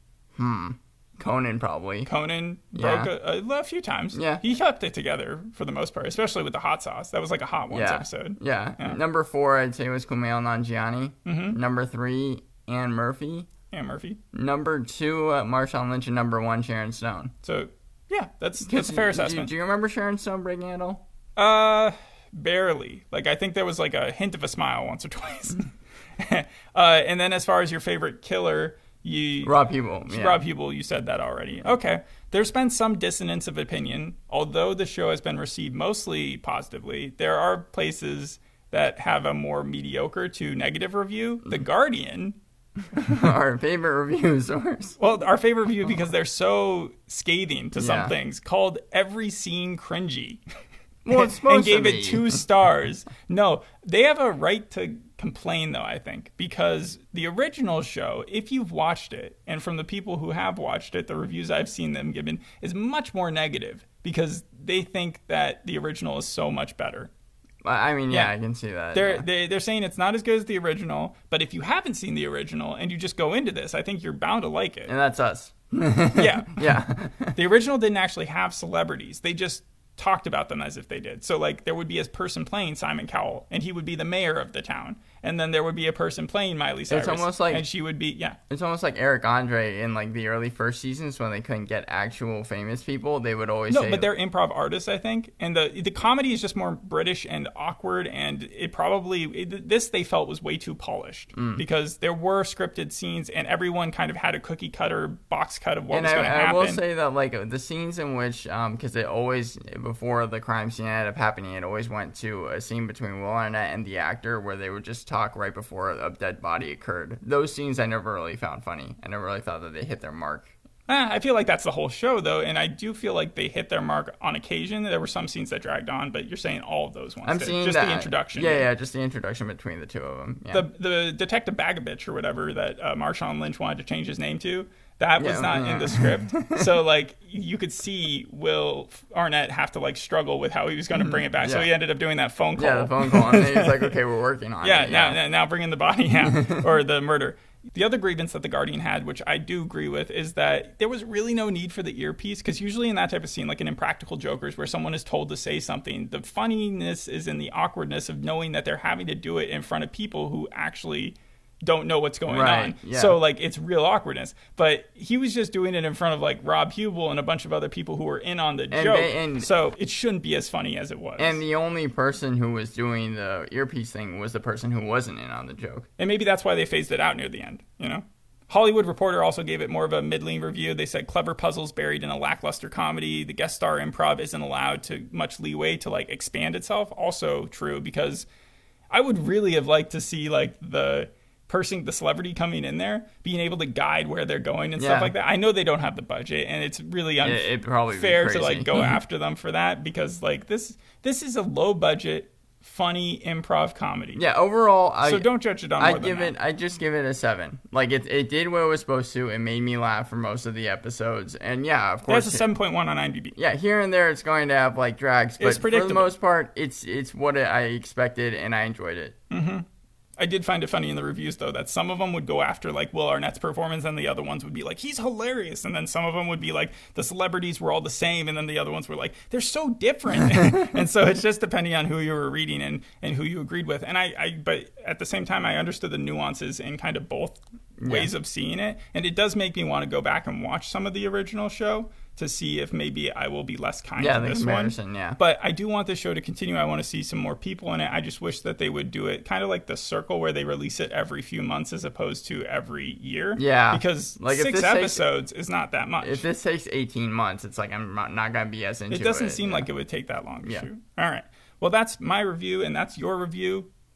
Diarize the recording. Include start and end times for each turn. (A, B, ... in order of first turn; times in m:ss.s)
0:00.4-0:02.1 A
0:02.0-0:09.0 B
0:02.7-0:03.1 A
0:04.1-0:04.4 A
0:07.7-0:13.5 A
0:11.2-0:11.6 B
0:13.7-0:14.2 B
0:14.3-0:17.3 A
0:17.4-0:19.5 B
0:18.6-0:21.0 A
0:21.4-0:42.4 B
0:29.4-0:30.4 A
0:42.9-0:45.0 A
0:43.0-0:43.3 B
0:45.0-0:50.4 B
0:47.8-0:48.1 A
0:51.0-0:52.4 A
0:51.1-1:07.1 B
1:07.6-1:09.2 A
1:08.1-1:08.3 B
1:08.9-1:14.9 B
1:14.9-1:17.4 A
1:16.1-1:16.8 B
1:17.3-1:28.4 B
1:26.9-1:27.6 A
1:28.5-1:34.1 A
1:33.7-1:46.8 B
1:41.4-1:41.6 A
1:45.9-2:00.5 A
2:00.9-2:08.7 B
2:07.2-2:10.7 A
2:10.5-2:23.9 B
2:15.2-2:16.7 A
2:20.9-2:21.7 A
2:22.6-2:25.2 A
2:24.6-2:51.4 B
2:26.2-2:26.6 A
2:42.2-2:43.2 A
2:48.7-2:49.5 A
2:51.2-2:55.9 A
2:56.0-3:08.2 B
3:08.9-3:24.2 B
3:14.8-3:15.1 A
3:17.2-3:19.0 A
3:24.2-3:32.5 A
3:25.0-3:26.3 B
3:32.1-3:33.4 B
3:33.4-3:39.2 A
3:35.4-3:36.1 B
3:39.3-3:39.6 B
3:40.2-4:16.2 B
3:57.8-3:58.1 A
4:04.0-4:05.2 A
4:13.4-4:15.0 A
4:16.0-4:19.7 A
4:18.9-4:23.7 B